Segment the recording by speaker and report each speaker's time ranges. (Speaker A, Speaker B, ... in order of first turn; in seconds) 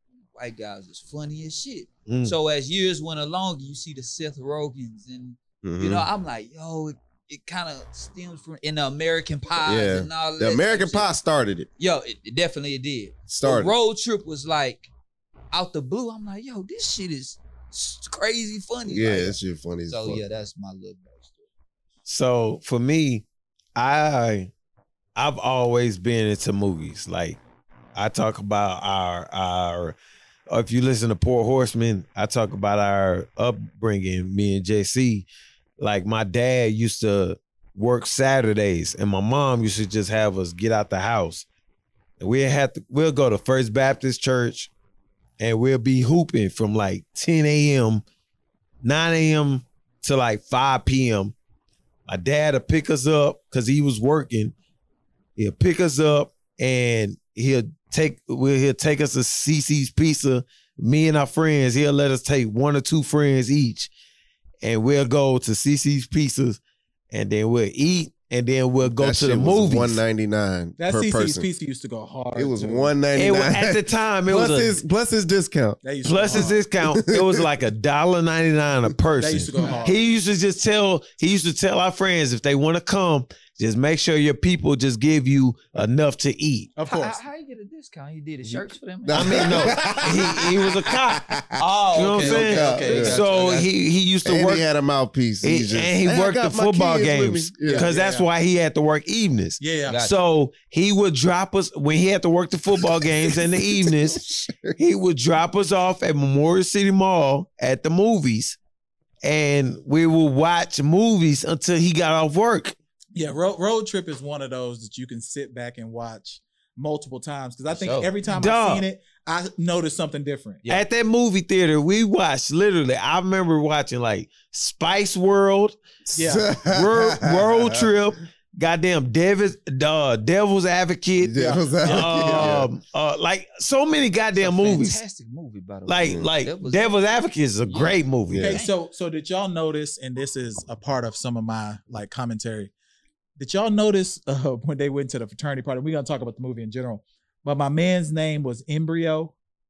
Speaker A: 0.3-11.1, 11.8-14.9, 15.5-21.4, 86.9-89.7, 91.6-93.7, 99.8-100.2, 117.7-118.1, 134.3-137.0, 137.7-138.7
Speaker B: 2.1-2.3, 22.1-23.2, 23.8-24.5, 25.1-27.4, 27.9-30.0, 30.5-35.2, 35.8-41.5, 42.2-44.7, 45.4-48.0, 48.8-51.3, 52.1-54.5, 55.4-63.9, 64.6-66.6, 67.1-70.0, 73.2-74.8, 76.0-86.7, 89.1-91.3, 91.9-94.6, 95.4-108.6, 109.2-112.7, 118.3-118.8, 120.7-125.8, 126.6-135.0, 135.8-138.6
Speaker C: 5.6-6.0, 9.6-11.7, 13.3-13.7, 18.9-20.2, 68.8-71.5, 72.3-77.5, 88.4-91.6, 92.2-93.2, 94.2-97.9, 103.0-104.7, 126.0-127.9, 131.2-132.7, 138.3-138.6
Speaker D: 70.8-72.9, 75.8-76.6, 79.2-80.0, 86.8-87.2, 89.6-90.1, 92.2-93.5, 97.6-98.3, 99.6-100.0, 113.1-120.6, 126.2-126.5, 131.4-132.5, 138.3-142.7, 143.4-149.3